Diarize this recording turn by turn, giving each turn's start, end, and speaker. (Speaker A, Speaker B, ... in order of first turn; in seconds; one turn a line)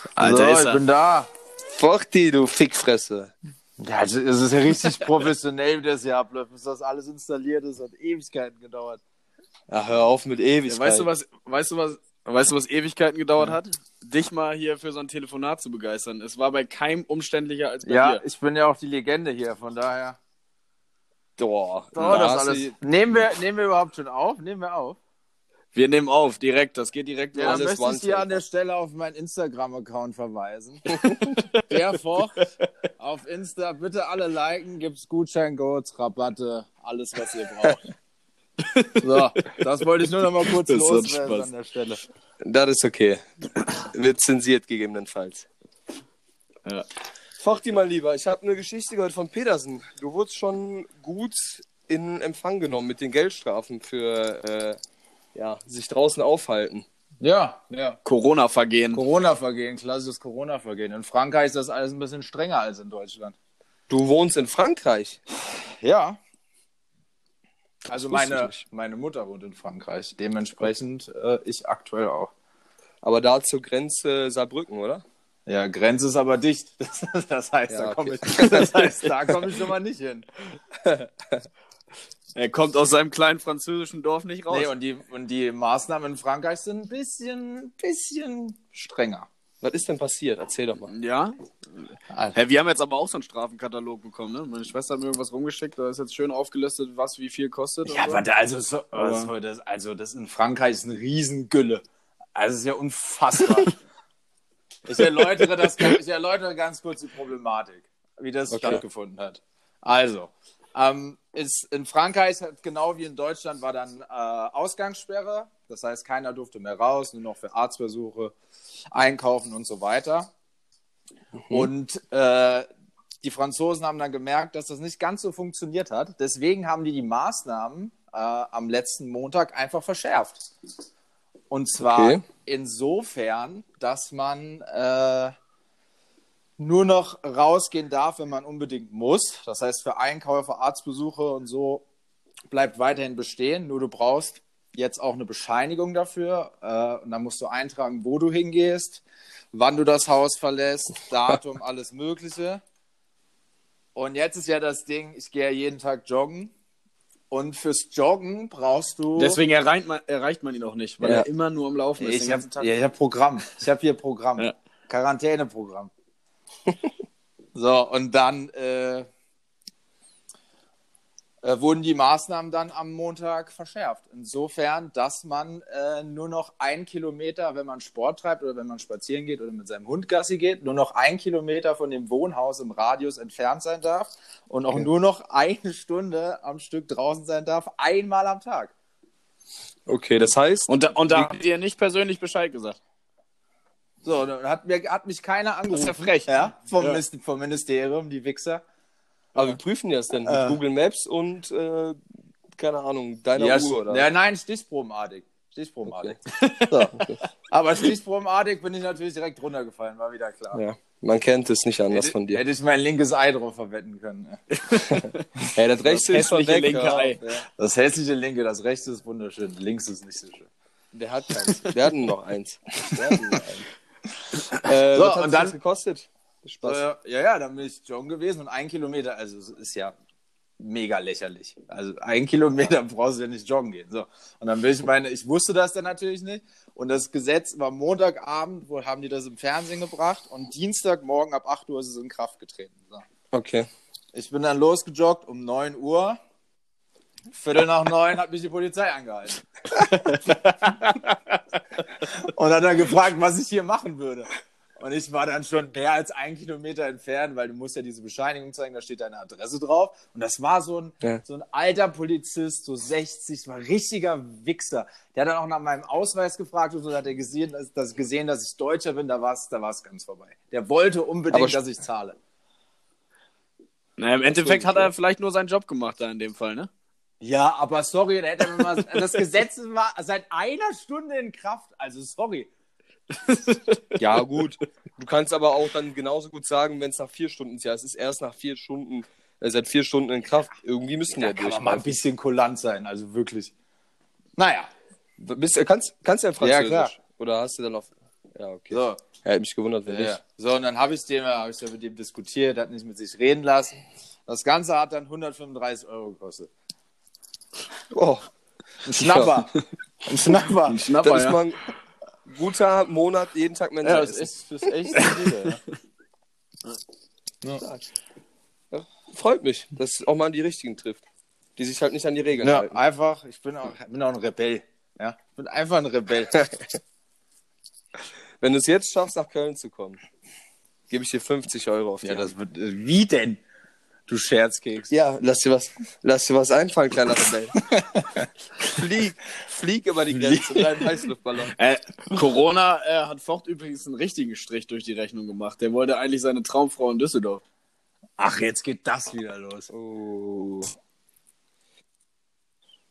Speaker A: 0.2-0.8
Speaker B: 0.2-1.3
Speaker C: 1.7-3.3
Speaker B: 3.8-9.0
Speaker C: 9.7-11.1
Speaker A: 10.7-18.2
Speaker B: 17.9-20.2
Speaker C: 21.4-22.8
Speaker B: 21.9-25.0
Speaker A: 25.7-27.6
Speaker B: 27.3-30.9
Speaker C: 27.4-28.4
Speaker C: 30.9-31.4
Speaker A: 31.3-32.4
Speaker B: 31.7-37.9
Speaker A: 38.6-39.6
Speaker B: 39.0-42.0
Speaker A: 40.4-41.5
Speaker C: 42.4-43.2
Speaker C: 43.9-45.5
Speaker C: 47.4-54.8
Speaker C: 55.4-56.9
Speaker B: 57.2-58.0
Speaker A: 58.0-59.0
Speaker B: 58.9-63.4
Speaker C: 63.9-65.2
Speaker B: 65.6-66.2
Speaker C: 67.9-68.6
Speaker B: 67.9-72.3
Speaker C: 73.0-75.0
Speaker B: 75.5-80.3
Speaker C: 77.7-79.3
Speaker A: 82.3-84.7
Speaker B: 84.5-89.3
Speaker C: 89.6-90.9
Speaker A: 90.9-98.2
Speaker B: 92.1-92.4
Speaker B: 97.9-101.8
Speaker A: 98.9-99.3
Speaker B: 102.4-103.8
Speaker B: 104.9-118.3
Speaker C: 108.5-108.8
Speaker B: 118.9-120.3
Speaker C: 121.4-121.7
Speaker B: 121.5-122.7
Speaker B: 123.2-130.4
Speaker B: 131.5-135.3
Speaker C: 131.8-132.2
Speaker B: 136.6-141.8
Speaker B: 142.5-152.6
Speaker B: 153.9-156.5
Speaker B: 157.3-159.4
Speaker A: 159.2-162.7
Speaker C: 161.0-161.3
Speaker B: 162.0-165.9
Speaker B: 167.6-169.1
Speaker B: 171.4-188.7
Speaker C: 189.9-191.3
Speaker A: 190.7-192.8
Speaker B: 194.0-198.6
Speaker A: 195.7-197.0
Speaker C: 199.3-202.0
Speaker B: 200.3-200.6
Speaker C: 202.6-204.1
Speaker B: 203.4-210.6
Speaker C: 205.8-206.2
Speaker A: 206.3-206.9
Speaker C: 210.5-212.4
Speaker B: 211.9-214.4
Speaker A: 214.5-215.3
Speaker C: 214.9-217.2
Speaker A: 215.9-217.2
Speaker B: 216.8-220.5
Speaker C: 220.9-223.7
Speaker C: 224.6-226.8
Speaker B: 224.7-225.6
Speaker B: 226.6-230.0
Speaker B: 230.6-243.1
Speaker C: 243.3-243.7
Speaker B: 244.1-246.2
Speaker B: 247.3-251.2
Speaker B: 252.0-272.2
Speaker C: 271.3-271.6
Speaker A: 274.0-276.7
Speaker C: 274.3-274.9
Speaker B: 277.2-282.5
Speaker A: 278.5-279.0
Speaker A: 283.1-283.8
Speaker C: 284.0-291.9
Speaker B: 291.1-293.5
Speaker B: 294.4-294.7
Speaker C: 295.2-300.2
Speaker B: 296.4-296.9
Speaker B: 298.7-299.0
Speaker B: 299.9-306.5
Speaker C: 307.9-308.2
Speaker B: 308.9-310.9
Speaker C: 308.9-309.3
Speaker A: 310.7-311.4
Speaker C: 311.0-311.7
Speaker C: 312.3-315.0
Speaker B: 313.8-315.6
Speaker A: 314.9-315.6
Speaker C: 317.6-317.9
Speaker C: 318.7-321.0
Speaker C: 321.6-322.8
Speaker B: 322.4-326.5
Speaker C: 328.4-330.0
Speaker C: 330.9-332.3
Speaker B: 332.0-333.4
Speaker B: 334.1-334.9
Speaker C: 334.9-337.6
Speaker B: 337.7-338.3
Speaker C: 338.6-341.6
Speaker B: 340.1-340.8
Speaker A: 341.6-347.4
Speaker B: 348.2-349.7
Speaker C: 349.7-350.7